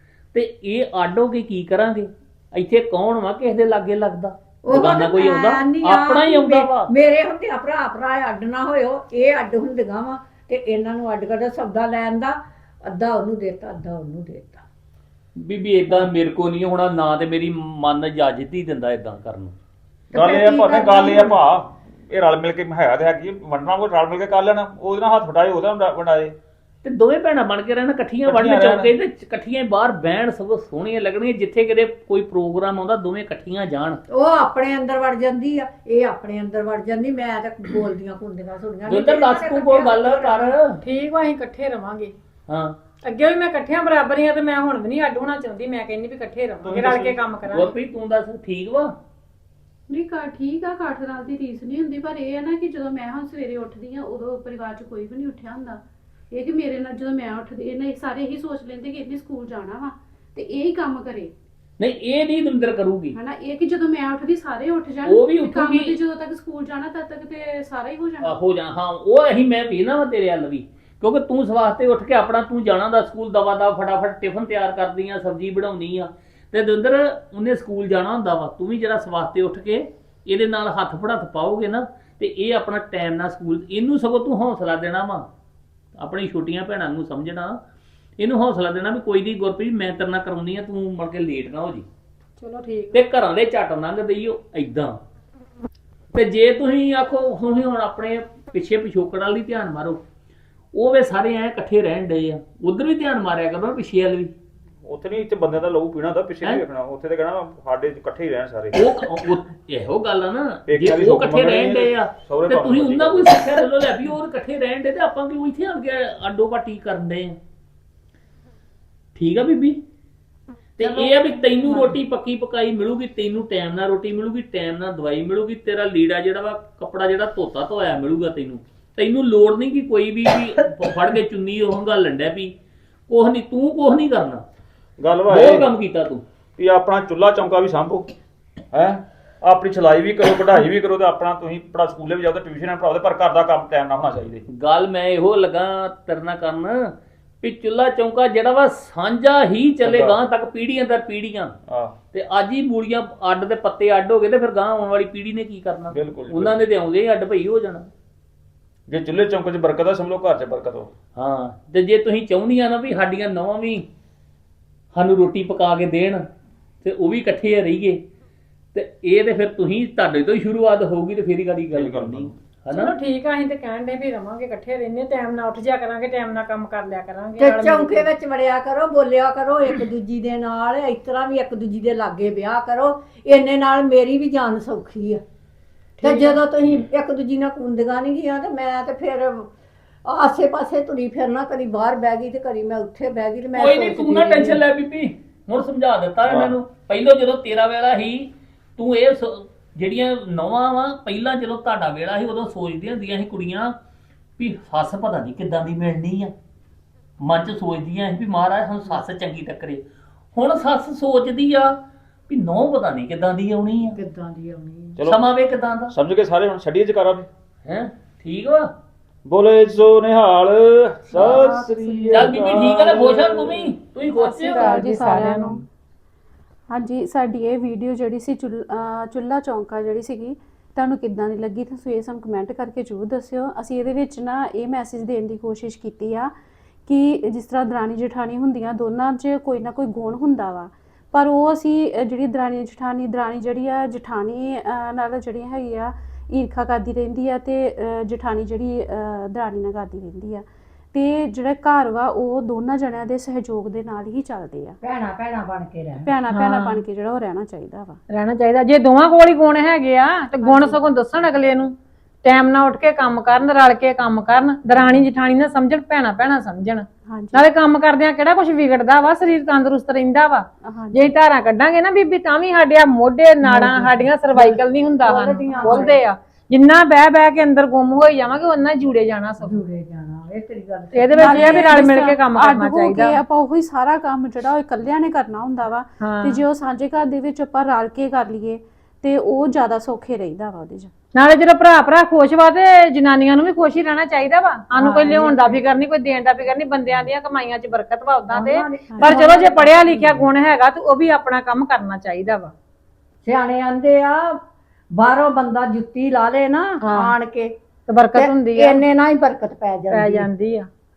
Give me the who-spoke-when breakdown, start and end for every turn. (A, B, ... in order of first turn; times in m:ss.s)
0:00.3-0:06.9 A
0:04.6-0:14.6 B
0:15.4-0:19.6 A
0:20.1-0:21.4 B
0:20.1-0:26.3 C
0:26.8-0:34.0 A
0:28.3-0:28.9 C
0:34.1-0:40.6 B
0:38.9-0:40.8 A
0:40.8-0:42.1 D
0:42.5-0:42.8 A
0:43.0-0:47.7 D
0:46.6-0:47.2 C
0:47.5-0:48.9 A
0:49.9-1:01.3 E
1:01.8-1:03.2 A
1:03.2-1:08.3 E
1:05.0-1:06.0 A
1:08.2-1:25.3 A
1:26.0-1:27.6 A
1:28.2-1:31.9 A
1:32.4-1:33.0 D
1:32.9-1:35.0 A
1:36.1-1:40.0 A
1:40.7-1:44.3 A
1:44.8-1:49.0 C
1:48.8-1:57.4 A
1:50.7-1:53.5 C
1:59.2-1:59.8 A
2:00.8-2:12.5 A
2:00.8-2:02.0 B
2:13.1-2:14.4 A
2:15.0-2:15.7 C
2:15.3-2:16.2 A
2:16.6-2:18.1 C
2:18.7-2:24.4 C
2:24.5-2:31.6 A
2:29.8-2:30.2 C
2:31.7-2:32.0 C
2:32.1-2:37.9 A
2:35.9-2:36.5 C
2:38.9-2:40.9 C
2:41.2-2:43.9 A
2:44.9-2:46.3 A
2:46.8-2:48.0 A
2:48.7-2:52.9 A
2:51.7-2:52.4 C
2:52.7-2:58.1 D
2:57.4-3:05.2 B
3:06.0-3:09.5 B
3:06.0-3:06.4 D
3:10.0-3:14.6 B
3:13.5-3:23.8 A
3:16.3-3:16.5 C
3:24.4-3:26.3 A
3:27.2-3:29.8 A
3:30.4-3:31.8 A
3:32.3-3:34.0 A
3:33.9-3:35.0 B
3:35.0-3:35.3 C
3:35.1-3:35.9 A
3:35.9-3:37.3 C
3:37.6-3:38.7 A
3:39.3-3:43.7 C
3:41.2-3:42.3 B
3:42.1-3:44.8 A
3:44.2-3:45.6 D
3:44.2-3:45.6 E
3:46.7-3:56.3 E
3:56.9-4:14.8 E
4:14.8-4:16.1 B
4:16.0-4:18.0 E
4:16.3-4:16.8 D
4:18.1-4:39.6 D
4:20.4-4:20.8 E
4:27.1-4:27.5 E
4:30.6-4:31.1 E
4:33.4-4:36.0 B
4:39.4-4:41.9 B
4:40.9-4:43.2 D
4:41.2-4:50.9 E
4:46.0-4:46.4 D
4:51.2-5:02.5 D
4:54.8-4:55.6 B
4:58.3-5:00.3 B
4:59.0-4:59.2 E
5:03.2-5:04.4 B
5:04.9-5:07.6 B
5:06.8-5:07.1 D
5:07.9-5:08.8 D
5:08.1-5:10.3 B
5:09.9-5:10.7 D